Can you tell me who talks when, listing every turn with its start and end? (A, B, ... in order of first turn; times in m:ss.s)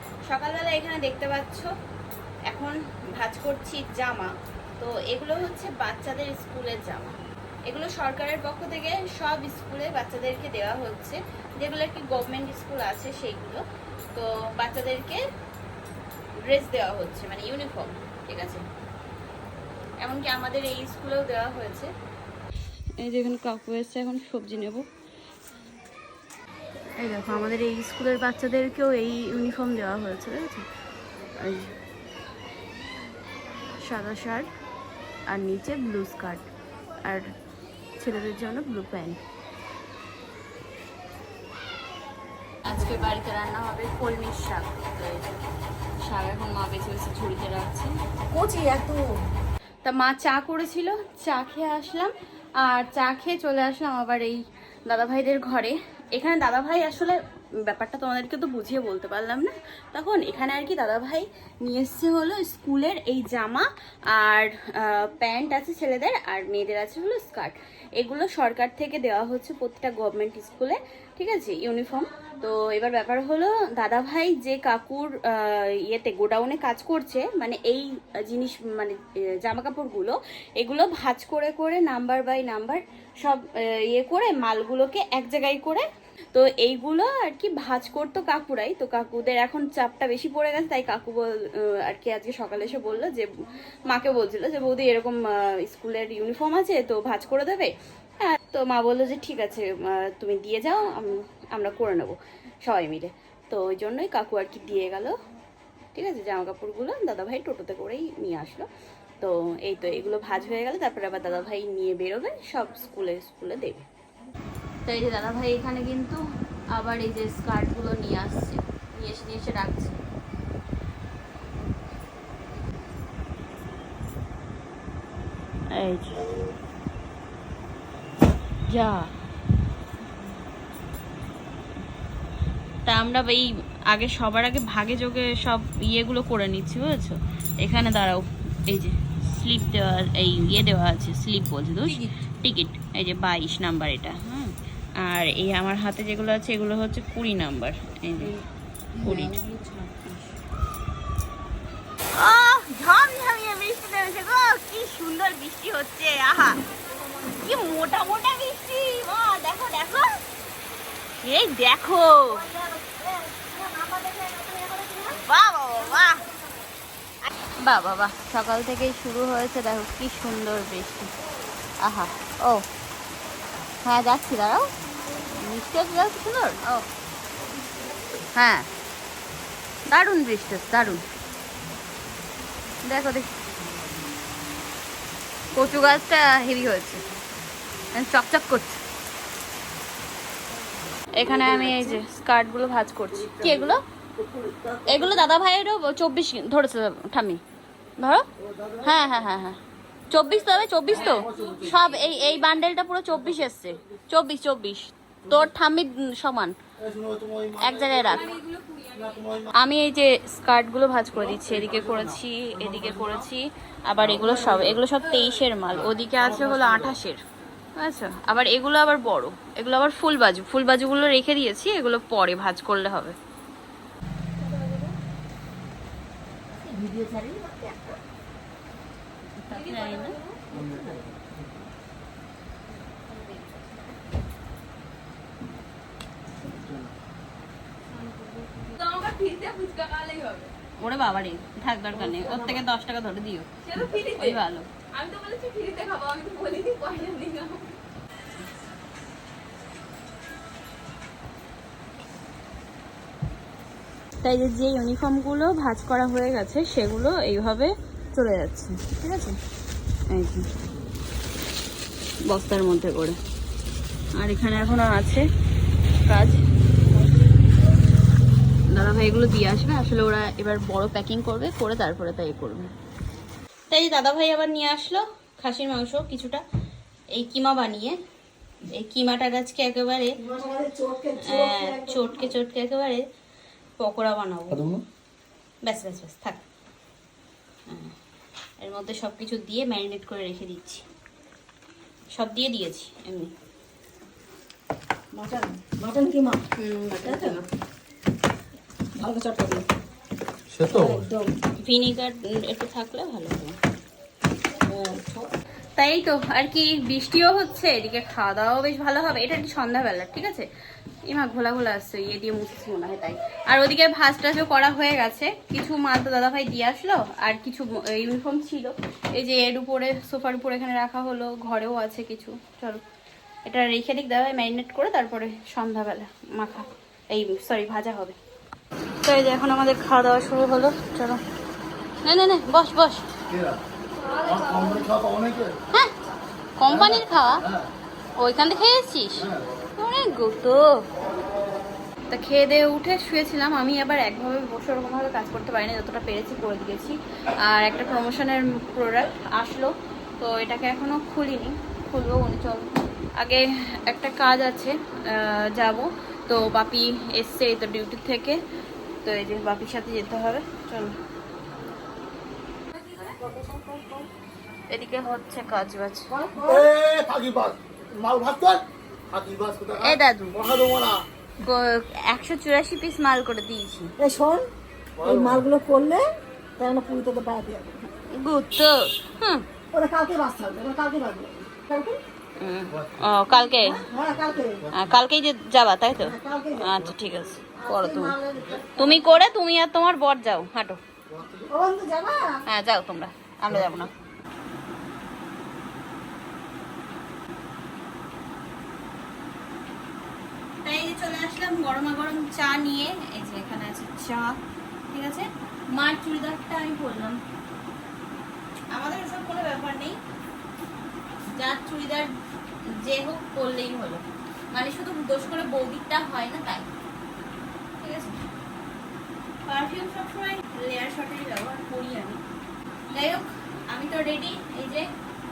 0:00.3-0:01.7 A
0:02.5-0:13.6 A
0:14.1-0:15.2 A
0:16.4-0:18.6 A
0:20.0-0:21.9 A
0:23.0-0:24.9 A
0:27.0-0:30.6 A
0:31.4-0:31.7 A
0:33.8-0:34.5 A
0:35.3-0:36.5 A
0:37.0-0:37.3 A
0:38.0-0:39.2 A
0:42.6-0:45.3 A
0:46.0-0:47.9 A
0:48.3-0:49.2 B
0:49.8-1:33.3 A
1:33.9-1:45.2 A
1:45.9-1:48.7 A
1:49.2-1:53.9 A
1:54.8-1:56.2 A
1:56.7-2:00.0 A
2:05.7-2:06.2 A
2:08.7-2:09.1 A
2:12.8-2:28.3 A
2:29.0-2:29.4 A
2:29.2-2:30.2 B
2:32.1-2:36.6 A
2:37.3-2:40.2 A
2:41.2-2:42.4 A
2:42.3-2:45.2 B
2:45.1-2:46.2 A
2:47.6-2:51.1 A
2:51.8-2:52.6 A
2:53.8-2:54.7 A
2:55.3-2:56.8 A
2:58.4-2:58.7 A
2:59.9-3:01.0 A
3:02.8-3:03.3 A
3:05.5-3:07.0 A
3:07.9-3:08.8 A
3:11.1-3:13.8 A
3:14.8-3:17.4 A
3:18.0-3:18.2 A
3:18.5-3:18.9 C
3:18.8-3:19.6 A
3:20.1-3:26.6 A
3:20.9-3:21.8 C
3:26.8-3:28.3 C
3:27.6-3:28.4 A
3:28.5-3:29.0 B
3:28.9-3:29.5 C
3:29.5-3:37.2 A
3:36.4-3:36.8 C
3:37.8-3:43.1 A
3:44.4-3:44.9 B
3:46.6-3:47.9 B
3:49.4-3:50.2 A
3:50.0-3:51.0 B
3:50.5-3:51.0 C
3:53.1-3:53.7 B
3:58.0-3:58.6 B
3:58.6-4:07.8 A
4:02.0-4:02.5 B
4:03.7-4:04.4 B
4:14.2-4:19.4 A
4:20.1-4:20.4 A
4:22.3-4:23.2 A
4:24.2-4:25.2 A
4:26.0-4:26.4 A
4:28.7-4:32.7 A
4:33.7-4:36.4 A
4:37.1-4:38.0 A
4:38.6-4:40.1 A
4:40.2-4:42.3 B
4:41.2-4:43.0 A
4:43.8-4:44.6 A
4:44.5-4:44.8 C
4:45.6-4:46.4 A
4:47.7-4:47.9 A
4:48.6-4:50.8 A
4:52.1-4:53.3 A
4:55.1-4:56.4 B
4:56.6-4:57.4 A
4:57.0-4:57.4 B
4:59.0-4:59.6 B
5:00.5-5:01.1 C
5:00.7-5:01.3 B
5:01.7-5:03.6 A
5:04.7-5:05.3 B
5:05.8-5:10.5 A
5:11.1-5:22.8 A
5:23.4-5:28.2 A
5:29.0-5:31.2 A
5:32.0-5:33.1 A
5:33.3-5:35.6 C
5:36.6-5:37.4 A
5:36.7-5:37.7 C
5:38.2-5:40.7 A
5:39.2-5:39.4 C
5:42.1-5:52.7 A
5:53.2-5:58.4 A
5:59.0-6:01.0 A
6:03.0-6:04.1 B
6:04.7-6:06.1 A
6:06.1-6:06.7 B
6:06.4-6:11.0 C
6:09.8-6:10.4 A
6:11.4-6:13.9 A
6:14.0-6:14.5 B
6:15.0-6:15.4 C
6:15.0-6:16.1 B
6:16.6-6:17.7 B
6:18.1-6:19.4 A
6:19.7-6:22.0 B
6:22.4-6:23.8 A
6:23.6-6:24.6 B
6:24.7-6:28.2 A
6:26.0-6:26.7 B
6:27.6-6:29.0 B
6:28.8-6:30.8 A
6:31.1-6:31.5 C
6:31.5-6:32.4 B
6:32.4-6:33.9 A
6:40.6-6:44.3 A
6:44.9-6:47.2 A
6:48.7-6:50.0 A
6:51.3-6:52.1 A
6:52.8-6:56.7 A
6:57.8-6:58.2 A
6:59.5-7:02.2 A
7:02.9-7:04.9 A